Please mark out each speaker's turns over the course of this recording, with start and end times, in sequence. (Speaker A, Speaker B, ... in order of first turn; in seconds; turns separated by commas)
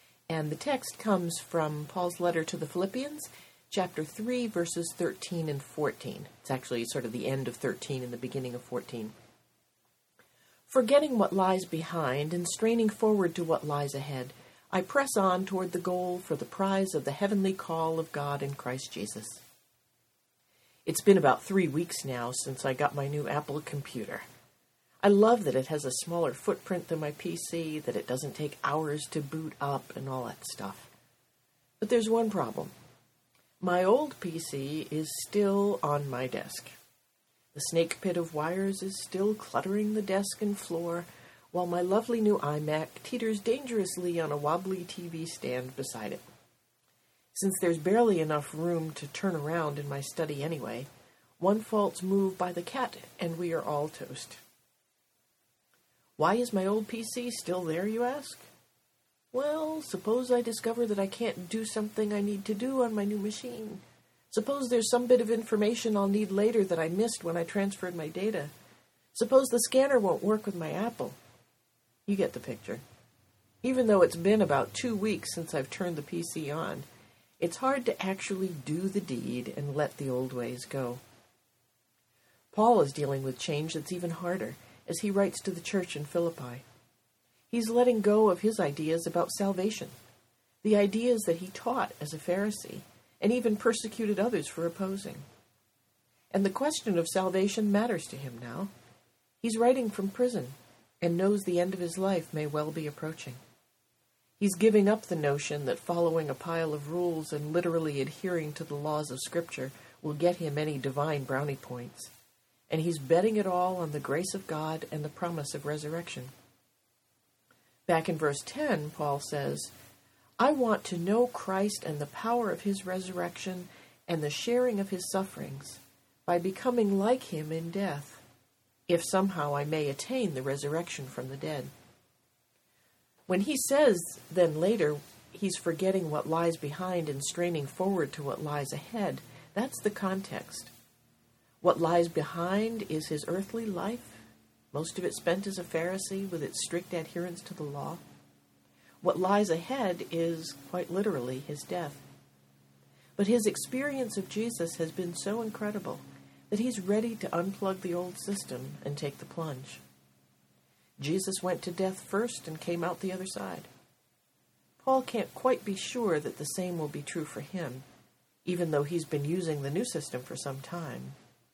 Speaker A: 0.3-9.1, Speaker A: 10.7-19.4, Speaker A: 20.8-24.2, Speaker A: 25.0-30.9, Speaker A: 31.8-32.7, Speaker A: 33.6-36.7, Speaker A: 37.5-46.2, Speaker A: 47.3-54.4, Speaker A: 56.2-58.5, Speaker A: 59.3-68.5, Speaker A: 69.1-71.2, Speaker A: 72.1-72.8, Speaker A: 73.6-76.8, Speaker A: 77.4-81.0, Speaker A: 82.5-86.6, Speaker A: 87.5-89.9, Speaker A: 90.6-95.2, Speaker A: 96.3-98.7, Speaker A: 99.4-103.4, Speaker A: 104.4-112.1, Speaker A: 112.7-116.3, Speaker A: 117.8-119.7, Speaker A: 120.4-128.2, Speaker A: 128.9-131.7, Speaker A: 133.3-140.7, Speaker A: 141.6-144.2, Speaker A: 144.7-148.0, Speaker A: 149.0-152.0, Speaker A: 153.2-159.8, Speaker A: 161.0-163.7, Speaker A: 164.8-167.8, Speaker A: 168.4-171.2